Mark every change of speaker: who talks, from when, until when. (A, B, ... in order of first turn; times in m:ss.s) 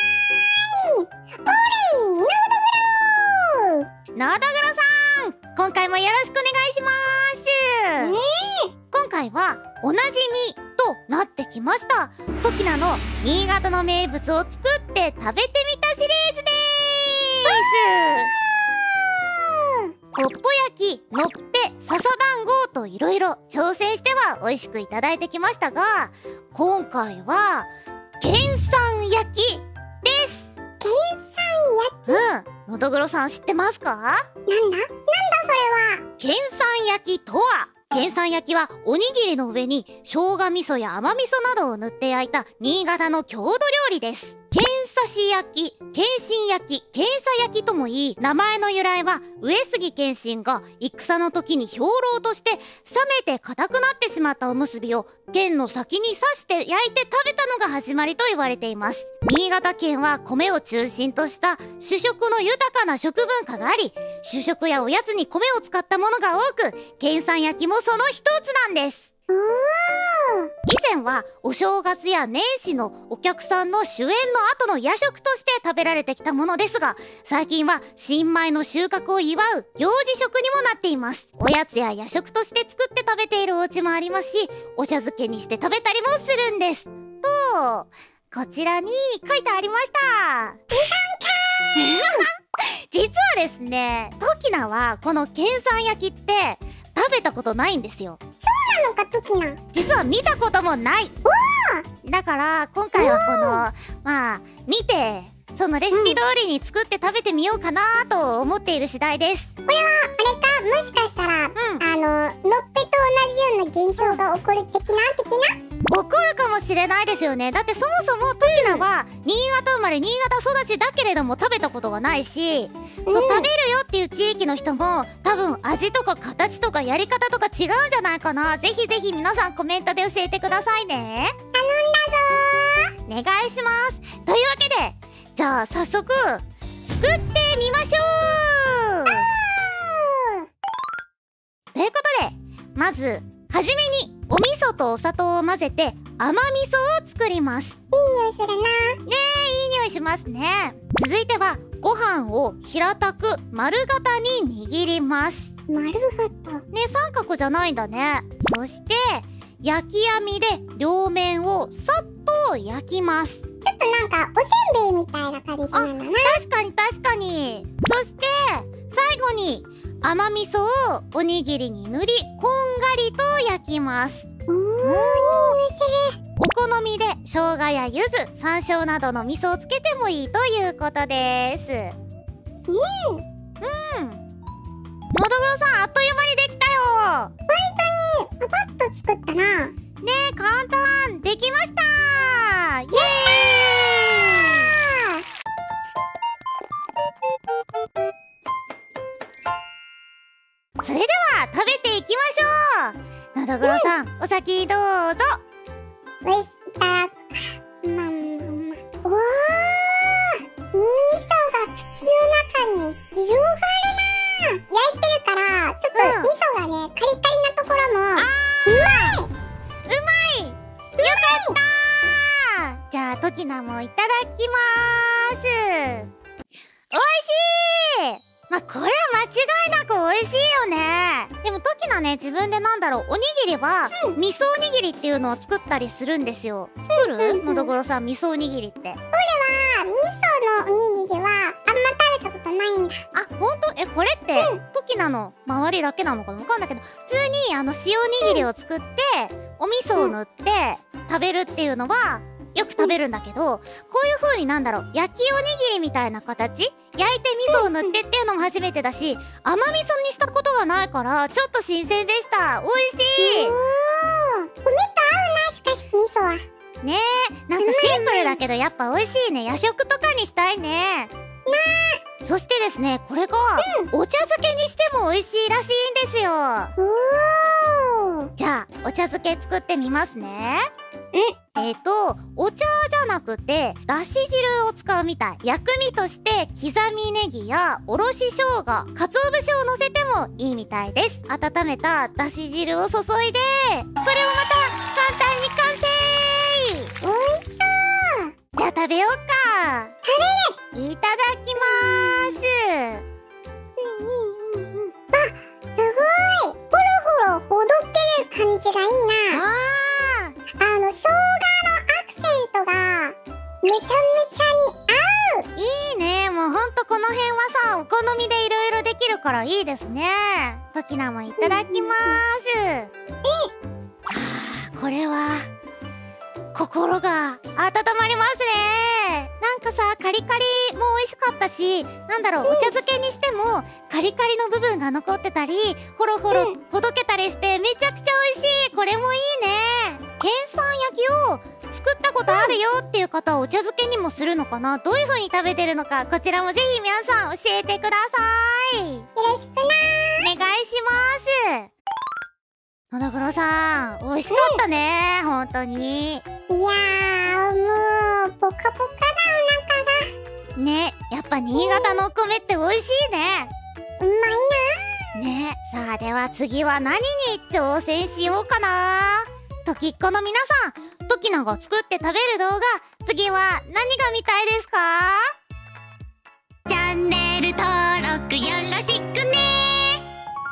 0:00.5-0:03.9 A
0:04.2-0:08.2 B
0:08.0-0:08.7 A
0:08.9-0:18.3 B
0:18.9-0:19.9 A
0:20.1-0:30.5 B
0:30.8-0:32.2 A
0:32.1-0:34.3 B
0:34.5-0:36.0 A
0:36.2-1:09.1 B
1:09.3-1:10.5 A
1:10.7-1:30.6 B
1:30.7-1:32.2 A
1:31.8-1:32.3 B
1:32.9-1:38.2 B
1:38.4-1:39.6 A
1:39.7-1:41.1 B
1:41.2-1:41.9 A
1:42.0-1:49.5 B
1:42.9-1:43.6 A
1:45.9-1:46.2 A
1:49.7-1:55.6 A
1:51.6-1:51.8 B
1:55.9-2:11.3 B
1:58.4-1:58.8 A
2:03.1-2:03.5 A
2:11.5-2:12.9 A
2:13.1-2:19.3 B
2:19.1-2:20.4 A
2:21.7-2:27.8 B
2:27.9-2:29.0 A
2:29.1-2:35.5 B
2:35.7-2:36.6 A
2:36.7-2:43.4 B
2:43.6-2:46.4 A
2:45.7-2:54.2 B
2:54.5-2:56.2 A
2:54.8-2:55.6 B
2:56.4-3:01.9 B
3:02.7-3:03.2 A
3:03.6-3:04.2 B
3:05.1-3:07.3 B
3:07.5-3:09.8 A
3:10.0-3:14.7 B
3:20.8-3:25.4 B
3:23.6-3:23.9 A
3:26.2-3:27.2 A
3:27.8-3:39.3 A
3:35.9-3:36.3 B
3:38.2-3:39.2 B
3:39.9-3:46.1 B
3:41.0-3:41.6 A
3:46.9-3:59.0 B
3:56.9-3:57.7 A
3:59.1-4:03.0 A
4:03.1-4:23.6 B
4:08.2-4:08.4 A
4:17.5-4:17.9 A
4:23.2-4:26.4 A
4:26.8-4:31.1 B
4:27.6-4:28.4 A
4:31.4-4:32.0 A
4:32.2-4:36.7 B
4:33.6-4:33.9 A
4:36.8-4:38.3 A
4:38.4-4:40.6 B
4:41.6-4:56.9 B
4:57.0-4:58.3 A
4:58.6-4:59.9 B
5:00.0-5:00.6 A
5:00.7-5:03.0 B
5:01.7-5:02.4 A
5:03.8-5:09.4 A
5:09.3-5:10.4 B
5:10.6-5:15.5 A
5:15.6-5:22.9 B
5:21.4-5:22.2 A
5:23.2-5:23.5 A
5:24.1-5:25.5 B
5:26.5-5:49.1 B
5:32.4-5:32.7 A
5:36.3-5:36.6 A
5:42.3-5:42.6 A
5:49.2-5:50.3 A
5:50.2-5:51.7 B
5:52.9-5:56.2 B
5:54.3-5:54.6 A
5:56.5-6:00.1 A
6:00.6-6:03.5 B
6:01.5-6:02.0 A
6:04.0-6:04.8 A
6:05.1-6:15.3 B
6:16.7-6:20.0 B